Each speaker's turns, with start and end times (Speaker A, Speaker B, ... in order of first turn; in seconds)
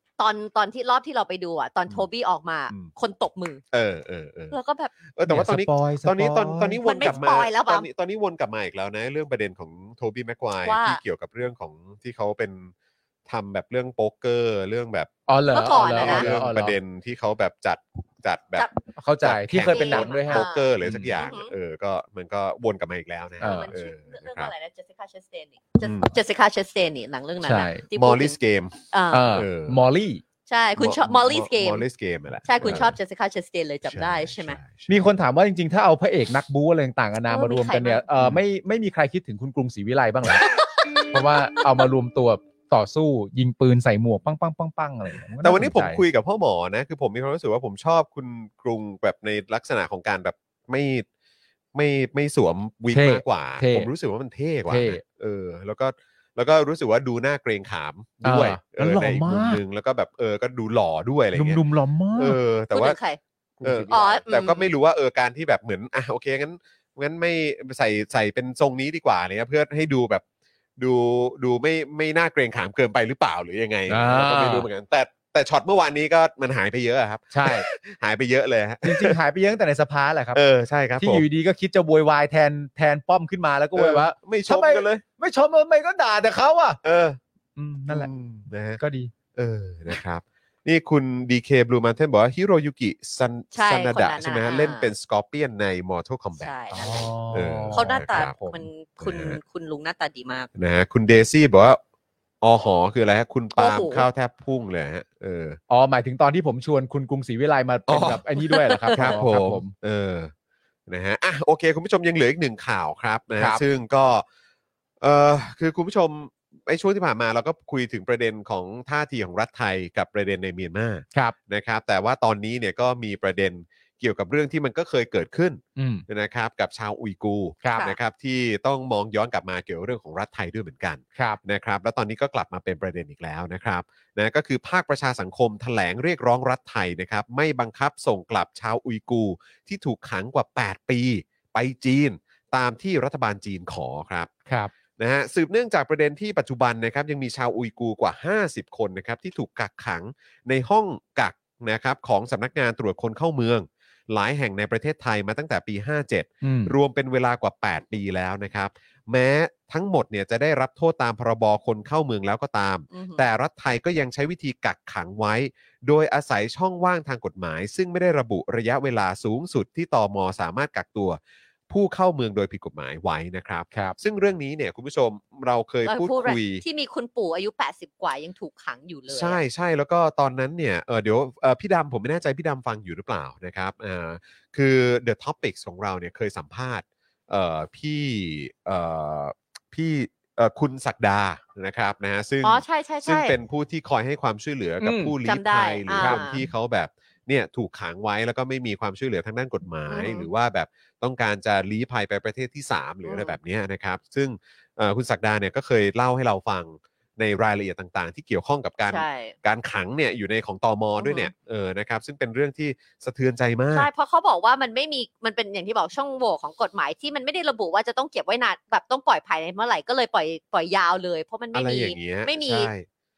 Speaker A: 0.2-3.6, 4.5-4.9, 6.8-7.9, 10.6-11.0, 15.5-16.3, 19.7-21.5, 23.4-28.4, 28.9-29.4, 30.5-31.9, 32.5-34.6, 37.3-38.0, 40.4-41.0, 62.7-63.2, 63.9-64.7, 93.5-94.9, 96.3-97.1, 97.7-100.5, 103.5-104.1, 108.5-109.2, 162.9-163.2, 175.8-179.4, 192.4-193.3, 195.2-196.4, 199.9-200.3, 203.0-203.3, 208.9-209.3, 211.0-211.3, 213.7-222.7
Speaker B: 3.7-4.5, 5.1-12.7, 13.2-15.1, 15.7-18.7, 19.2-24.5, 25.8-26.1, 27.9-28.8, 29.3-29.8, 30.8-32.9, 33.9-34.9, 38.2-38.4, 45.4-51.0, 51.7-61.6, 62.1-63.0, 63.6-70.2, 70.8-79.2, 80.3-81.2, 83.7-85.0, 86.8-87.2, 87.9-88.8, 89.3-96.5, 97.3-98.3, 99.0-99.4, 100.5-101.8, 102.4-105.6, 107.9-108.2, 108.9-110.3, 110.9-114.2, 115.0-144.3, 145.0-171.2, 171.7-176.6, 179.1-213.9, 221.5-222.8
Speaker C: 5.2-7.2, 15.3-16.8, 19.0-21.1, 23.4-23.7, 27.4-27.8, 29.1-30.2, 32.6-32.9, 34.9-40.5, 41.1-46.0, 52.9-53.9, 54.7-55.0, 58.2-59.6, 61.3-62.4, 63.6-64.2, 73.9-74.7, 77.3-77.7, 78.8-80.4, 81.0-86.8, 87.5-89.1, 96.7-98.7, 105.7-109.7, 125.8-126.0, 144.5-144.7, 156.4-156.7, 194.8-195.1, 196.0-196.2